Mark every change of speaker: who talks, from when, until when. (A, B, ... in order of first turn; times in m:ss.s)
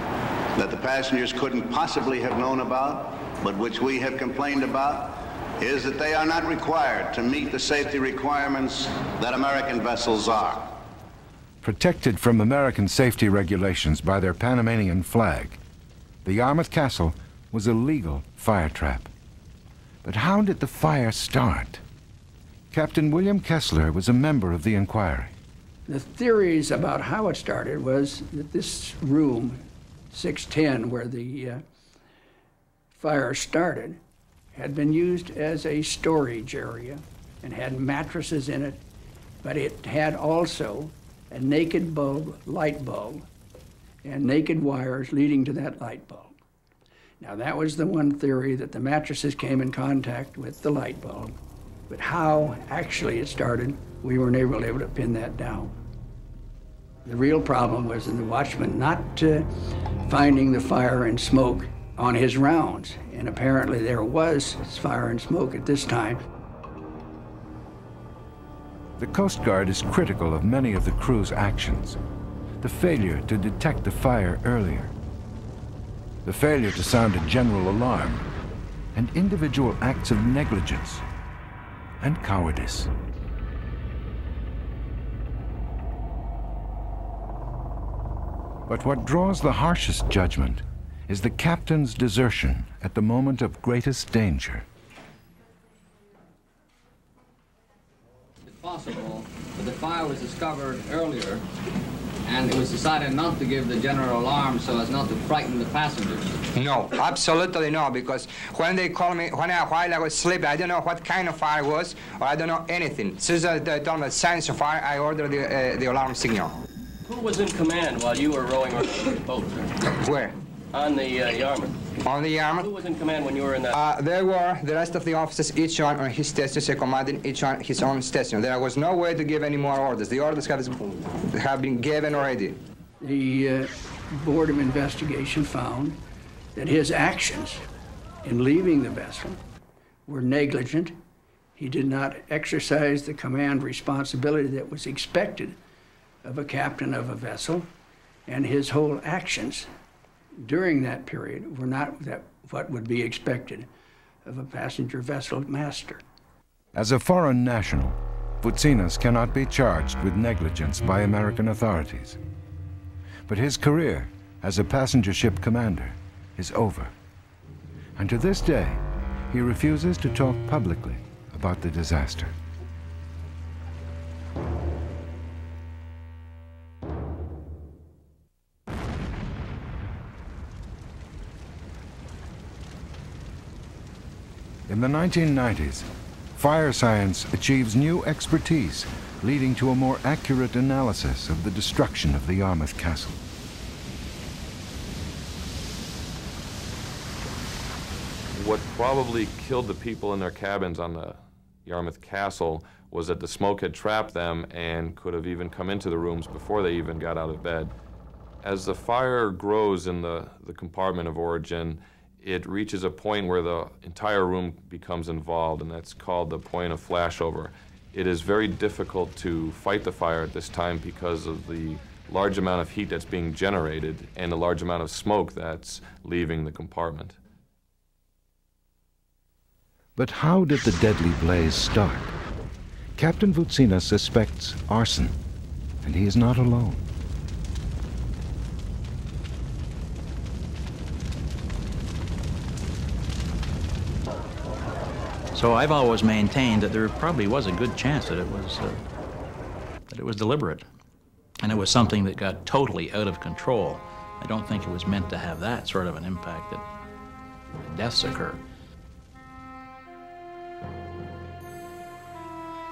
0:00.6-0:10.8 A
0:11.6-0:15.6 B
0:16.2-0:19.1 B
0:20.0-0:21.8 B
0:22.7-0:25.3 B
0:25.9-0:31.6 C
0:32.9-0:34.0 C
0:34.5-0:38.8 C
0:39.4-0:43.3 C
0:44.0-0:46.3 C
0:47.2-0:51.4 C
0:51.9-0:55.7 C
0:57.0-0:59.5 C
1:00.0-1:06.2 C
1:09.0-1:12.0 B
1:12.6-1:14.9 B
1:16.2-1:18.3 B
1:19.0-1:21.0 B
1:22.0-1:22.9 B
1:28.7-1:34.7 B
1:38.4-1:41.4 D
1:42.3-1:46.3 D
1:46.6-1:56.6 E
1:57.1-1:59.8 F
1:59.9-2:00.4 E
2:00.7-2:01.8 F
2:02.0-2:02.8 E
2:02.7-2:03.8 F
2:03.8-2:12.6 E
2:13.0-2:16.0 C
2:16.6-2:17.6 C
2:18.2-2:19.4 C
2:20.1-2:21.0 C
2:21.6-2:25.6 C
2:26.2-2:27.7 C
2:28.3-2:29.7 C
2:30.4-2:33.7 C
2:34.2-2:36.0 C
2:36.8-2:42.2 B
2:43.3-2:46.9 B
2:48.0-2:52.4 B
3:04.7-3:13.2 B
3:18.3-3:27.7 G
3:28.4-3:47.2 G
3:50.0-3:52.1 B
3:53.0-3:55.2 B
3:55.8-3:56.8 B
4:05.3-4:08.8 H
4:09.9-4:10.6 H
4:11.4-4:16.6 H
4:17.7-4:18.4 H